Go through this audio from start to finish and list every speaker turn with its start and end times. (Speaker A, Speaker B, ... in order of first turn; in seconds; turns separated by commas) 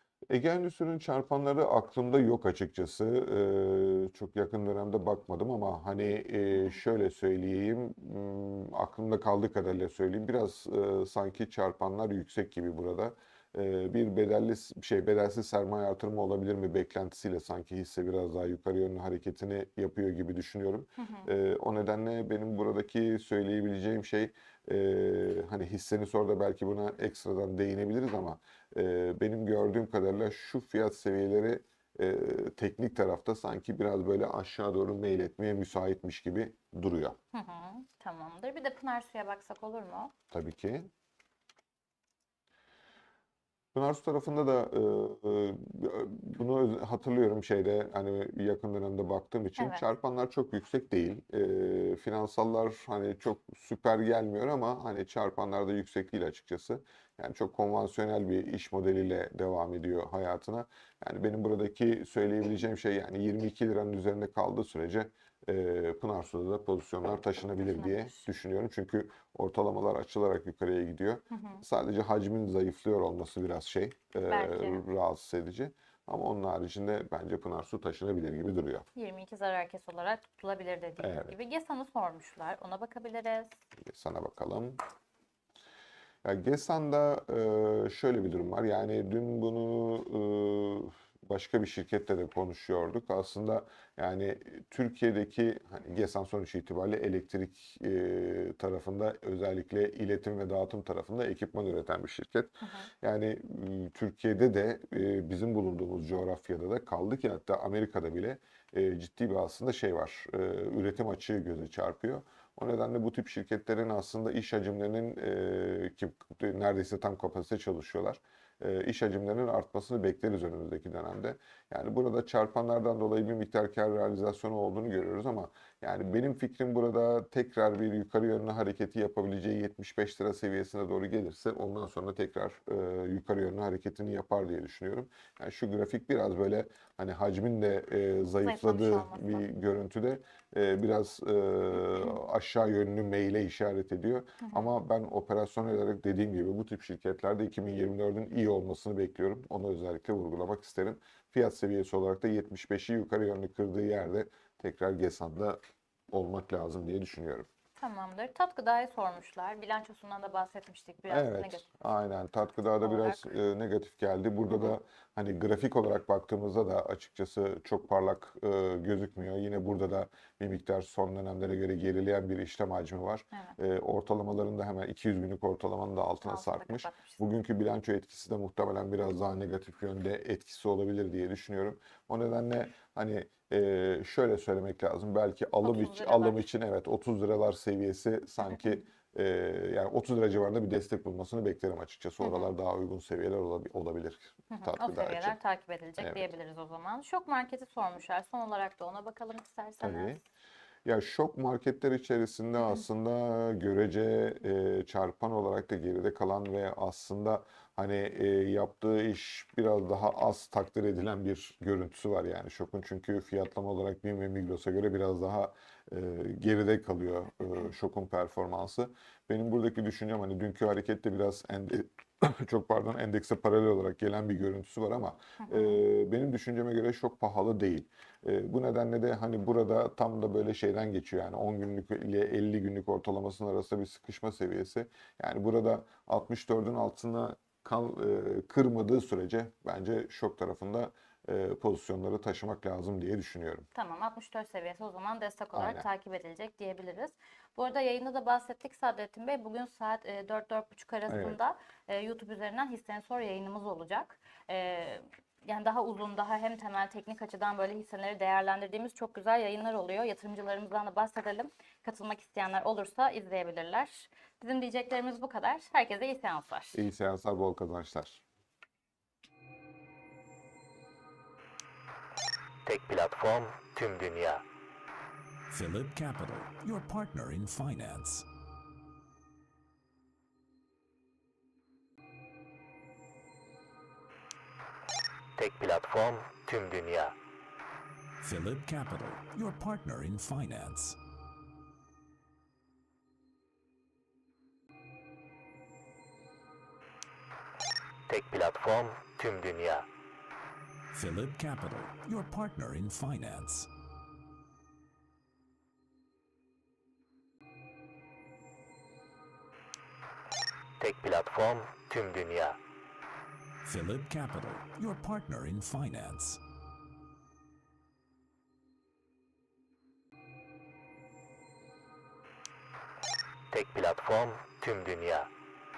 Speaker A: 0.3-37.2, Speaker B: 21.0-21.3, Speaker B: 37.3-40.1, Speaker A: 40.3-40.9, Speaker A: 43.7-78.8, Speaker B: 49.6-49.8, Speaker B: 67.6-68.2, Speaker B: 71.3-71.6, Speaker B: 74.3-74.8, Speaker B: 78.9-83.5, Speaker A: 81.0-81.3, Speaker A: 83.8-84.8, Speaker A: 86.2-155.6, Speaker B: 102.6-102.9, Speaker B: 138.4-139.4, Speaker B: 144.4-144.8, Speaker A: 156.1-157.5, Speaker B: 157.8-161.7, Speaker A: 161.1-195.4, Speaker B: 162.8-163.2, Speaker B: 176.2-177.2, Speaker B: 185.6-186.4, Speaker B: 192.2-192.5, Speaker B: 194.5-200.2, Speaker A: 196.0-196.3, Speaker A: 199.8-200.2, Speaker A: 200.8-243.7, Speaker B: 225.4-225.8, Speaker B: 243.7-266.8, Speaker A: 245.5-245.8, Speaker A: 251.1-251.4, Speaker A: 266.7-268.2, Speaker C: 272.6-274.4, Speaker D: 275.5-278.2, Speaker C: 285.4-287.1, Speaker D: 288.2-291.0, Speaker C: 298.1-299.9, Speaker D: 300.9-303.7, Speaker C: 310.8-312.6, Speaker D: 313.6-316.4, Speaker C: 323.5-325.3